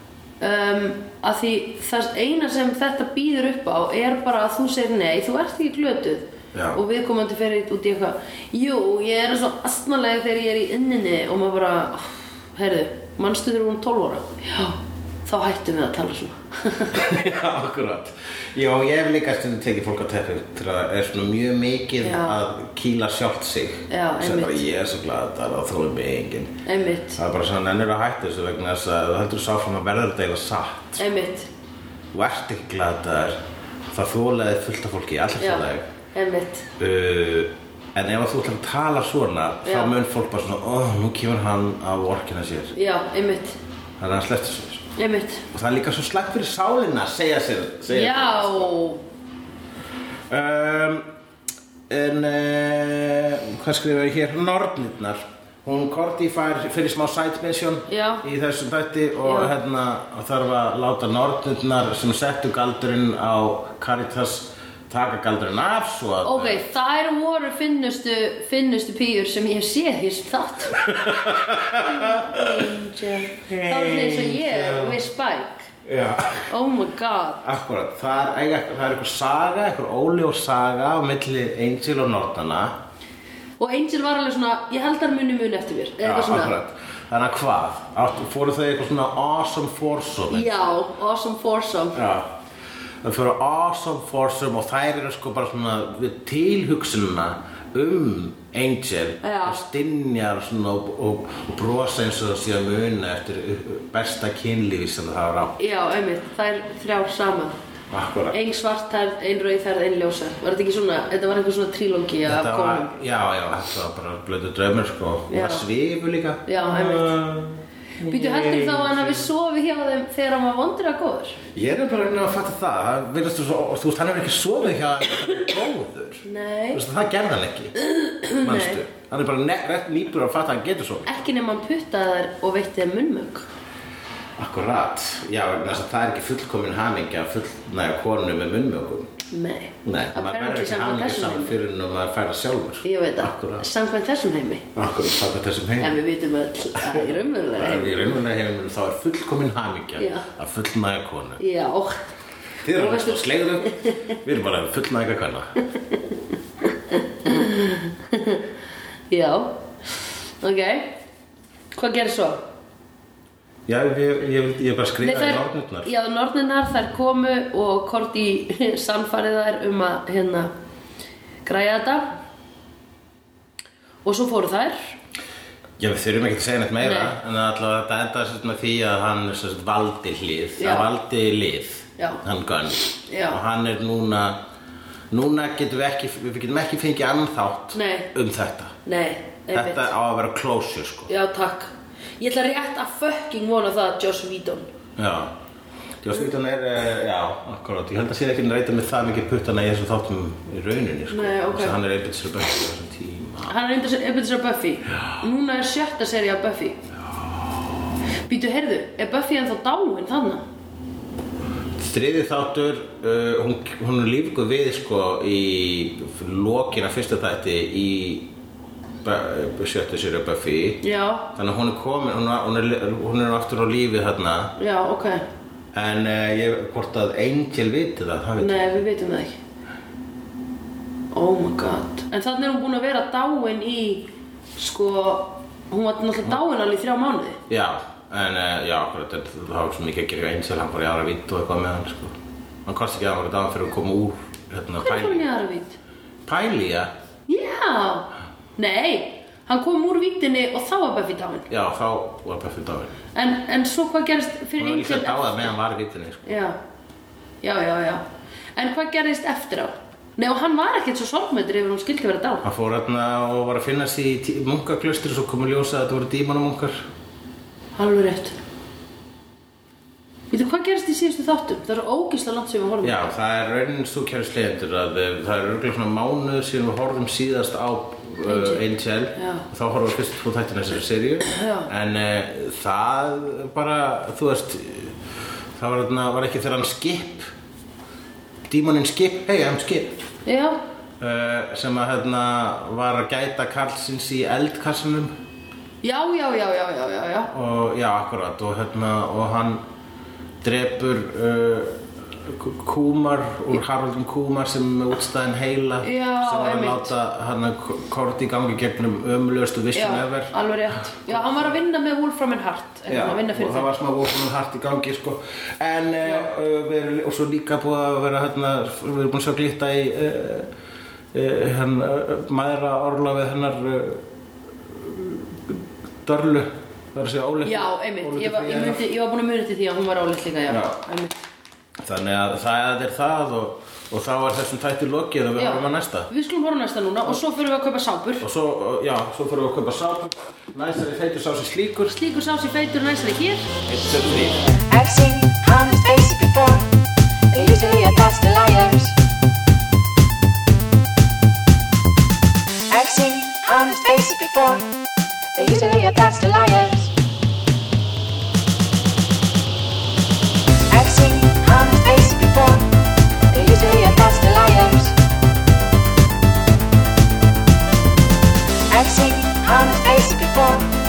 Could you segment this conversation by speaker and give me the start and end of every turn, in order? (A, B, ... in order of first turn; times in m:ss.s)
0:00.4-0:17.0 A
0:06.5-0:06.8 B
0:16.9-0:26.6 B
0:22.0-0:22.4 A
0:23.9-0:24.6 A
0:26.6-0:27.2 A
0:27.2-0:31.0 B
0:31.0-0:31.5 A
0:32.1-0:33.4 B
0:33.9-0:35.9 B
0:35.4-0:36.7 A
0:36.8-0:42.7 B
0:39.6-0:39.9 A
0:42.7-0:43.6 A
0:44.0-0:44.9 B
0:45.0-0:45.4 A
0:45.5-0:48.7 B
0:47.9-0:49.0 A
0:50.3-0:51.0 B
0:51.9-1:06.6 B
0:57.9-0:58.2 A
0:59.2-0:59.5 A
1:06.2-1:10.8 A
1:10.7-1:12.7 B
1:11.8-1:15.7 A
1:13.4-1:15.0 B
1:15.9-1:16.5 B
1:16.5-1:17.4 A
1:17.4-1:22.7 B
1:23.6-1:26.6 A
1:26.0-1:30.6 B
1:30.3-1:32.0 A
1:31.9-1:32.3 B
1:33.0-1:45.6 B
1:39.2-1:39.6 A
1:45.6-1:47.6 A
1:47.9-1:48.4 B
1:48.3-1:52.9 A
1:52.2-1:59.3 B
1:55.3-1:55.6 A
1:56.4-1:57.1 A
1:58.0-2:01.4 A
2:01.5-2:07.7 B
2:06.2-2:06.8 A
2:07.8-2:08.8 A
2:08.3-2:11.1 B
2:11.0-2:13.4 A
2:14.4-2:19.1 B
2:19.3-2:21.6 A
2:19.8-2:23.6 B
2:22.8-2:24.7 A
2:24.7-2:26.0 B
2:25.8-2:28.2 A
2:26.8-2:31.4 B
2:30.0-2:30.3 A
2:31.4-2:32.0 A
2:32.6-2:35.5 B
2:32.7-2:34.1 A
2:36.7-2:38.4 A
2:39.1-2:41.0 A
2:41.8-2:42.4 A
2:43.7-2:45.9 B
2:45.0-2:50.5 A
2:51.4-2:52.1 A
2:54.0-2:54.9 A
2:55.8-3:04.4 B
2:56.8-2:57.1 A
3:00.6-3:00.9 A
3:03.0-3:03.4 A
3:05.1-3:08.8 B
3:07.7-3:08.1 A
3:08.8-3:09.9 A
3:09.5-3:11.1 B
3:11.1-3:14.6 A
3:15.0-3:15.3 B
3:16.0-3:23.5 B
3:21.1-3:21.8 A
3:23.4-3:26.8 A
3:28.3-3:30.4 A
3:31.8-3:38.3 B
3:39.0-3:40.8 B
3:40.8-3:41.3 A
3:41.3-3:44.5 B
3:44.6-3:45.2 A
3:45.7-3:48.7 B
3:48.4-3:49.4 A
3:51.1-3:57.4 A
3:57.5-4:05.3 B
4:04.8-4:05.8 A
4:06.2-4:06.9 B
4:07.3-4:11.5 A
4:11.5-4:13.0 B
4:13.1-4:15.5 A
4:14.6-4:16.4 B
4:16.2-4:16.6 A
4:17.4-4:18.0 A
4:18.6-4:22.4 A
4:22.4-4:26.8 B
4:27.8-4:28.4 A
4:30.3-4:33.0 A
4:32.8-4:45.0 B
4:38.2-4:38.6 A
4:39.1-4:39.4 A
4:41.3-4:41.7 A
4:45.6-4:47.3 B
4:48.5-4:50.0 B
4:50.2-4:50.6 A
4:51.0-4:55.1 B
4:55.8-4:57.3 A
4:57.3-4:59.6 B
5:00.4-5:10.3 B
5:05.8-5:06.9 A
5:09.7-5:13.7 A
5:11.0-5:11.6 B
5:12.9-5:20.5 B
5:16.0-5:16.3 A
5:21.1-5:24.0 B
5:24.8-5:28.8 B
5:27.4-5:31.1 A
5:30.5-5:30.8 B
5:31.8-5:36.1 B
5:35.4-5:38.2 A
5:38.2-5:42.0 B
5:41.9-5:43.5 A
5:43.6-5:44.5 B
5:44.7-5:46.7 C
5:47.3-5:49.0 C
5:52.7-5:54.7 C
5:55.3-5:56.9 C
6:00.7-6:02.7 C
6:03.3-6:05.0 C
6:08.7-6:10.7 C